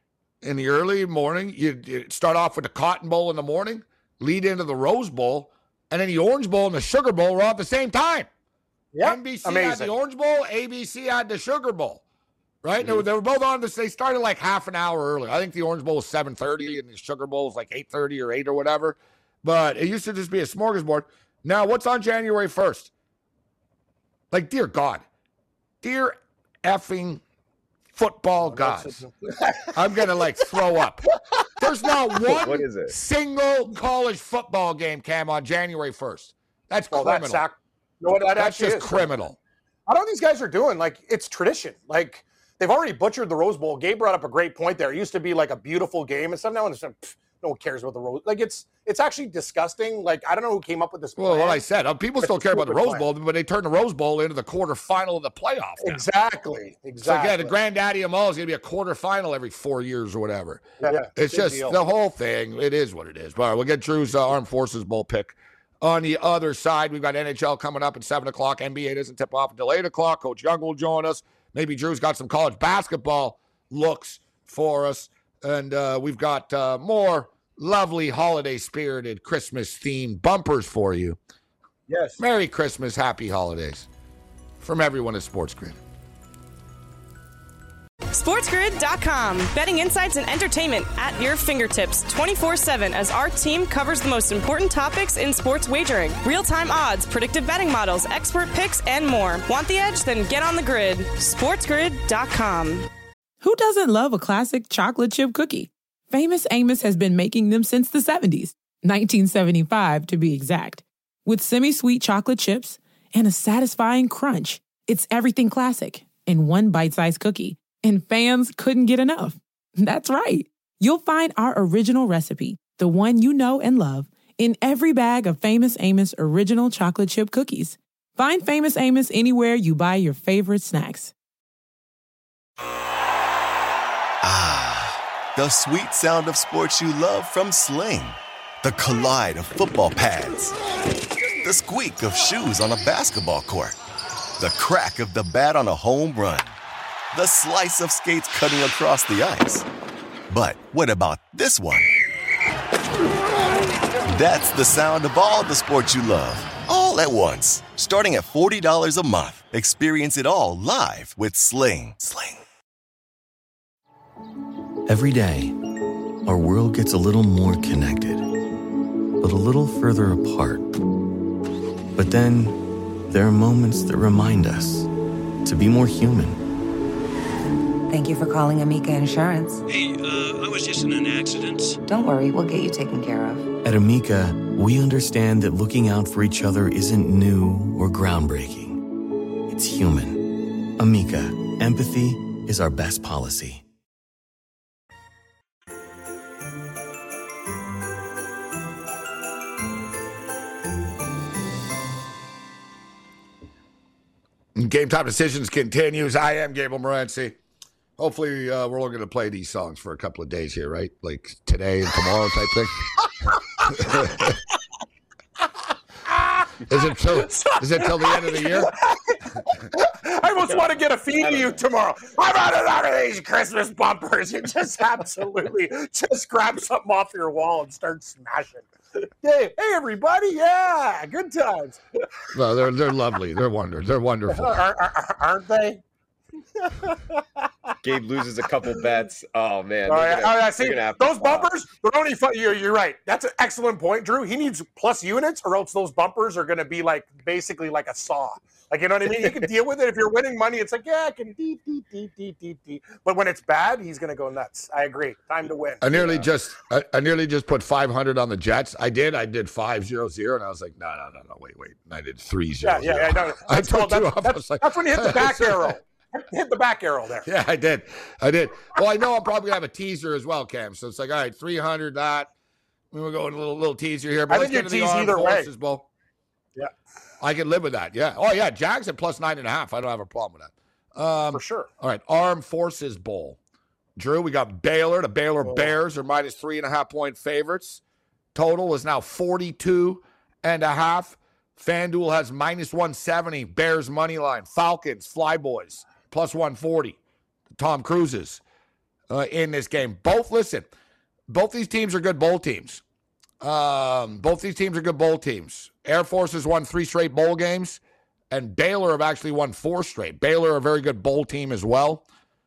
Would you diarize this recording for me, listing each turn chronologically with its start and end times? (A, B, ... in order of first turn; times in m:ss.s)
0:00.4-0:08.3 A
0:08.9-0:09.9 B
0:09.0-0:12.0 A
0:12.6-0:22.9 A
0:24.3-0:25.0 A
0:25.8-0:27.2 A
0:27.9-0:29.0 A
0:28.4-0:30.0 B
0:29.7-0:37.4 A
0:32.2-0:32.9 C
0:36.9-0:39.1 B
0:38.4-0:39.4 A
0:39.9-0:51.6 B
0:51.2-0:56.0 A
0:52.2-0:53.0 B
0:55.8-0:57.5 B
0:57.0-1:21.2 A
1:00.8-1:01.8 B
1:21.9-1:22.2 B
1:22.2-1:23.9 A
1:24.6-1:25.8 A
1:28.1-1:42.9 D
1:43.4-2:11.1 E
2:14.2-2:20.6 F
2:21.4-2:23.8 F
2:24.4-2:26.6 F
2:27.1-2:29.6 F
2:30.3-2:32.0 F
2:34.1-2:42.4 F
2:44.9-2:45.6 G
2:46.2-2:48.2 G
2:49.2-2:50.7 G
2:52.0-2:54.9 G
2:55.4-2:56.4 G
2:57.9-2:59.6 H
2:59.7-3:01.8 I
3:01.8-3:03.4 H
3:03.6-3:08.8 G
3:09.5-3:10.2 G
3:10.8-3:13.6 G
3:24.5-3:27.4 A
3:28.0-3:32.8 A
3:33.2-3:34.5 B
3:33.7-3:34.4 A
3:35.4-3:36.6 B
3:36.7-3:38.7 A
3:37.1-3:51.8 B
3:41.2-3:41.6 C
3:52.3-3:54.5 A
3:54.3-3:55.8 B
3:56.5-3:57.7 B
3:57.8-4:01.5 C
3:59.8-4:16.2 B
4:15.8-4:25.8 A
4:22.6-4:27.3 B
4:27.2-4:32.3 A
4:32.9-4:35.9 A
4:34.3-4:35.5 B
4:37.2-4:43.4 A
4:41.3-4:41.7 B
4:44.0-4:47.8 A
4:45.4-4:45.7 B
4:48.3-4:57.0 A
4:57.5-4:58.4 A
4:59.1-5:00.7 A
5:01.3-5:02.8 A
5:03.4-5:12.0 A